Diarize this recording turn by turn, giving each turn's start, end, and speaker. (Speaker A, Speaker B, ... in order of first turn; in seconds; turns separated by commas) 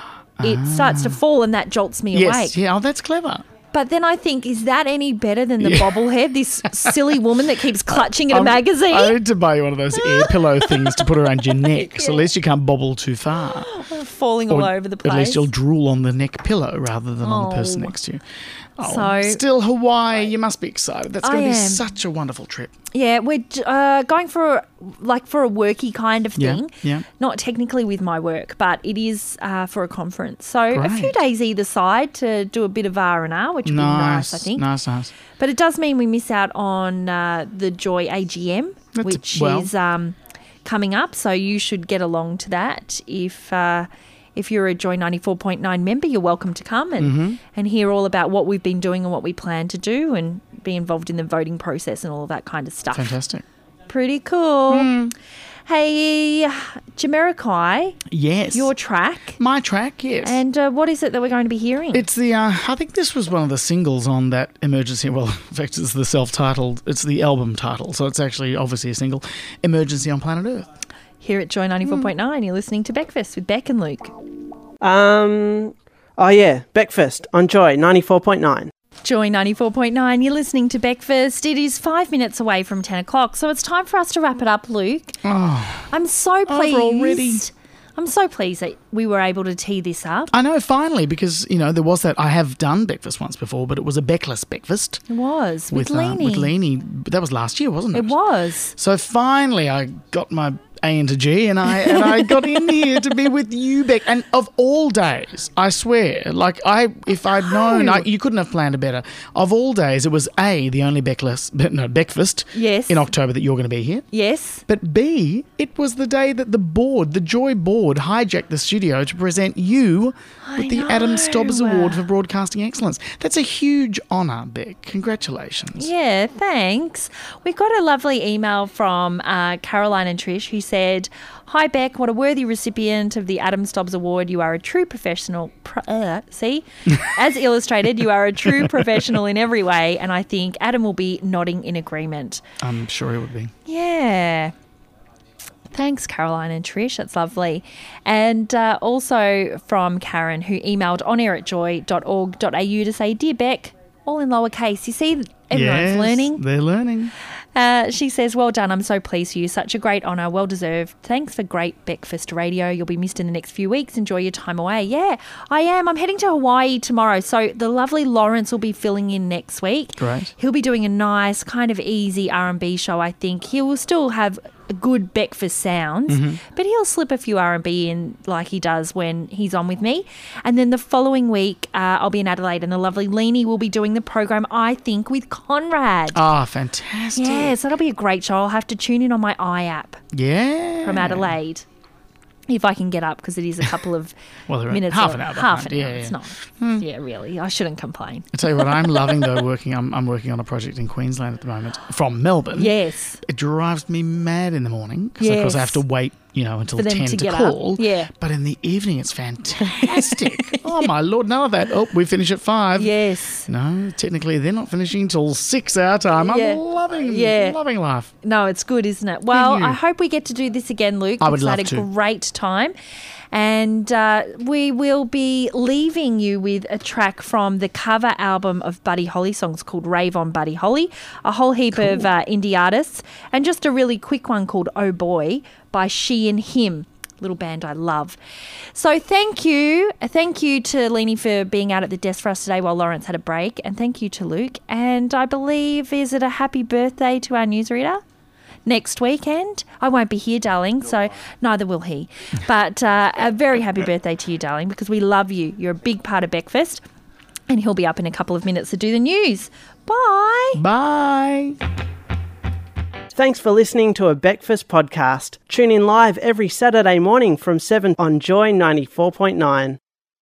Speaker A: 0.4-1.2, Speaker B: 0.4-2.6, Speaker A: 2.1-3.5, Speaker B: 3.7-9.2, Speaker A: 5.6-6.0, Speaker A: 6.7-7.0, Speaker A: 7.9-13.7, Speaker B: 10.0-11.0, Speaker B: 11.6-12.3, Speaker B: 13.6-15.5, Speaker A: 14.5-18.2, Speaker B: 17.2-17.9, Speaker A: 18.8-22.7, Speaker B: 18.8-19.4, Speaker B: 21.2-21.9, Speaker B: 22.9-34.7, Speaker A: 26.4-27.1, Speaker A: 30.7-31.2, Speaker A: 33.6-35.1, Speaker B: 35.4-53.2, Speaker A: 39.0-39.7, Speaker A: 47.0-47.4, Speaker A: 52.9-53.4, Speaker B: 53.9-54.9, Speaker A: 54.7-55.1, Speaker B: 55.7-58.0, Speaker A: 58.1-58.7, Speaker B: 58.5-59.4, Speaker A: 59.4-60.4, Speaker B: 60.2-62.1, Speaker A: 61.9-70.7, Speaker B: 71.2-74.1, Speaker C: 74.8-78.7, Speaker B: 79.0-85.2, Speaker A: 85.2-85.9, Speaker B: 85.9-90.3, Speaker A: 86.5-87.5, Speaker A: 90.3-95.0, Speaker B: 95.1-96.5, Speaker A: 95.7-98.2, Speaker B: 97.9-98.7, Speaker A: 98.7-114.1, Speaker B: 107.7-108.0, Speaker B: 112.5-113.1, Speaker B: 114.1-114.6, Speaker A: 114.7-125.9, Speaker B: 120.4-122.0, Speaker B: 125.8-142.4, Speaker A: 142.6-143.5, Speaker B: 143.7-144.5, Speaker B: 145.7-156.4, Speaker A: 155.5-157.1, Speaker B: 157.6-186.2, Speaker A: 170.0-170.3, Speaker A: 176.1-176.4, Speaker A: 186.2-187.6, Speaker B: 187.2-190.0, Speaker A: 190.1-191.4, Speaker B: 190.8-191.7, Speaker B: 192.5-194.2, Speaker A: 194.5-196.8, Speaker B: 194.7-198.3, Speaker A: 198.3-212.9, Speaker B: 202.6-203.2, Speaker B: 205.2-205.8, Speaker B: 206.8-208.1, Speaker B: 209.8-210.8, Speaker B: 212.8-213.5, Speaker A: 213.5-218.1, Speaker B: 216.2-217.6, Speaker B: 218.2-222.7, Speaker A: 219.3-219.8, Speaker A: 221.2-221.9, Speaker B: 223.3-238.2, Speaker A: 231.7-232.1, Speaker B: 238.7-248.0, Speaker B: 248.7-256.8, Speaker B: 257.5-260.6, Speaker A: 260.6-261.6, Speaker C: 263.1-269.8